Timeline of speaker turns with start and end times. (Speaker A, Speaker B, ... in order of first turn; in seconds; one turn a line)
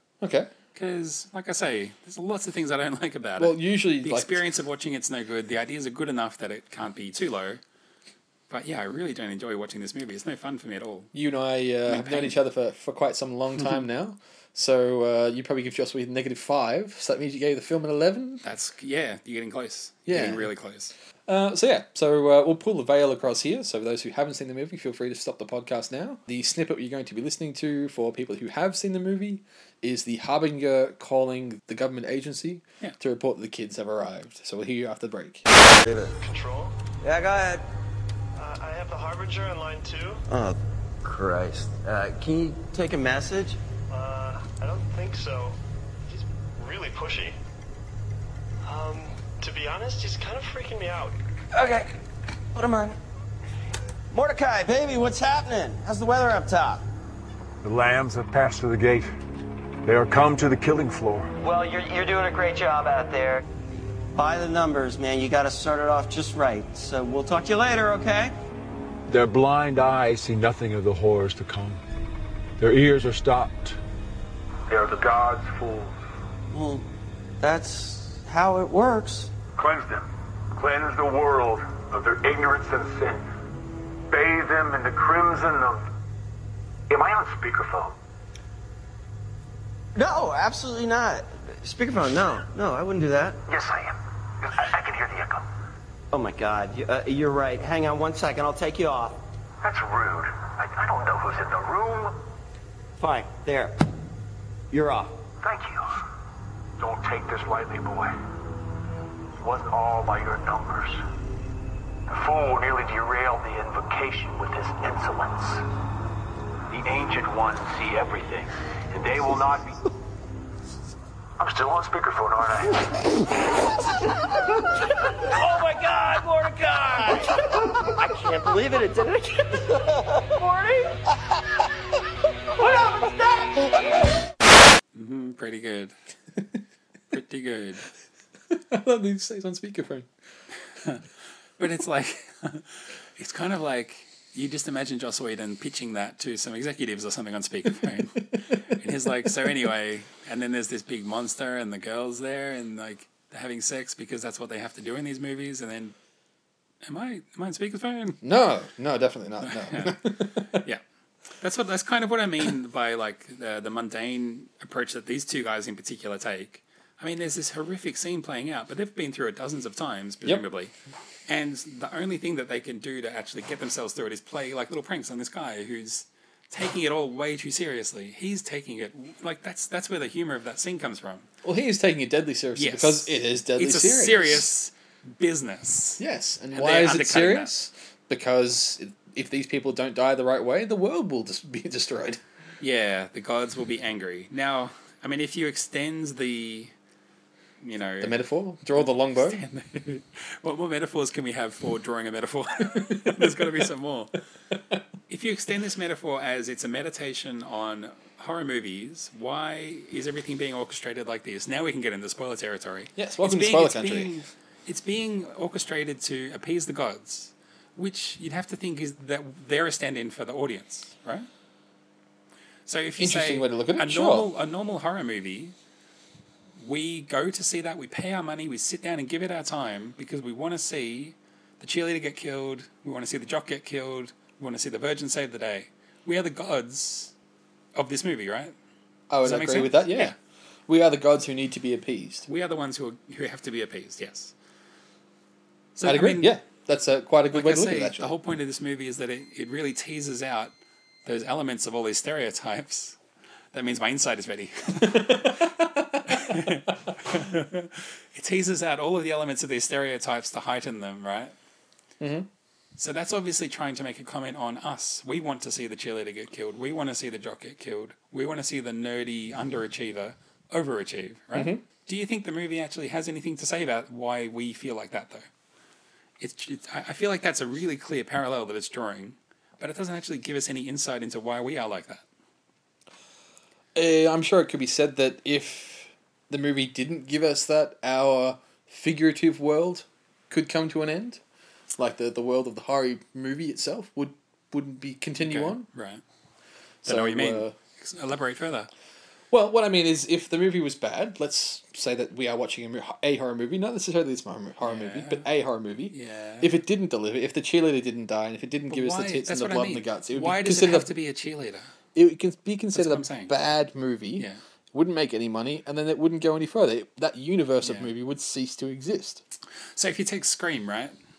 Speaker A: 0.2-0.5
Speaker B: 0.8-7.6
Speaker A: 3.4-4.4
Speaker B: 8.5-11.1
Speaker A: 11.1-18.4
Speaker B: 11.9-12.4
Speaker B: 18.4-20.9
Speaker A: 20.1-20.5
Speaker A: 21.3-35.5
Speaker C: 35.8-36.1
Speaker D: 36.2-36.8
Speaker C: 37.0-37.6
Speaker D: 38.4-40.2
Speaker C: 40.3-43.6
Speaker D: 43.9-47.4
Speaker D: 48.6-51.2
Speaker C: 51.5-51.9
Speaker C: 52.5-53.0
Speaker C: 54.1-56.8
Speaker E: 57.6-59.1
Speaker F: 58.0-58.4
Speaker E: 59.9-61.3
Speaker C: 61.4-63.5
Speaker C: 64.1-68.3
Speaker E: 69.1-71.8
Speaker E: 72.6-73.7
Speaker F: 72.9-73.6
Speaker F: 74.7-75.9
Speaker C: 76.5-76.8
Speaker C: 77.4-79.3
Speaker F: 79.6-83.2
Speaker F: 84.1-85.9
Speaker F: 86.9-88.0
Speaker C: 90.0-93.4
Speaker F: 93.5-95.5
Speaker C: 96.1-99.2
Speaker F: 99.6-102.1
Speaker C: 103.0-103.8
Speaker C: 104.7-105.1
Speaker F: 105.4-105.9
Speaker F: 106.8-108.1
Speaker F: 109.4-111.0
Speaker F: 112.1-115.6
Speaker F: 116.7-119.8
Speaker F: 121.4-123.0
Speaker C: 125.3-131.0
Speaker C: 132.6-133.7
Speaker B: 134.9-135.9
Speaker B: 137.1-137.9
Speaker A: 138.5-140.1
Speaker B: 141.6-155.9
Speaker B: 156.8-158.2
Speaker A: 158.2-160.6
Speaker B: 159.4-160.8
Speaker B: 161.4-170.7
Speaker B: 171.3-181.3
Speaker A: 181.4-184.5
Speaker B: 182.6-186.0
Speaker A: 186.0-192.2
Speaker B: 186.5-187.5
Speaker B: 192.6-196.7
Speaker B: 197.6-198.2
Speaker A: 198.0-199.4
Speaker B: 198.8-204.2
Speaker A: 202.9-203.6
Speaker B: 205.1-221.3
Speaker A: 213.0-214.2
Speaker B: 222.7-225.6
Speaker A: 223.0-224.3
Speaker B: 226.6-237.1
Speaker B: 237.8-238.5
Speaker A: 239.1-240.2
Speaker B: 239.2-240.2
Speaker A: 240.7-242.3
Speaker B: 242.3-244.3
Speaker B: 245.8-246.4
Speaker A: 245.8-248.2
Speaker B: 247.3-253.0
Speaker B: 253.5-255.5
Speaker A: 254.8-256.5
Speaker B: 256.1-261.4
Speaker A: 262.0-262.3
Speaker B: 262.8-275.3
Speaker A: 271.3-271.6
Speaker B: 276.2-282.1
Speaker A: 283.8-291.2
Speaker A: 291.8-295.7
Speaker B: 295.2-296.0
Speaker A: 296.9-297.6
Speaker B: 296.9-298.7
Speaker A: 299.3-310.9
Speaker B: 304.6-305.3
Speaker B: 305.9-306.6
Speaker B: 308.7-311.7
Speaker A: 311.9-319.2
Speaker B: 312.7-313.3
Speaker B: 317.6-317.9
Speaker B: 319.8-321.0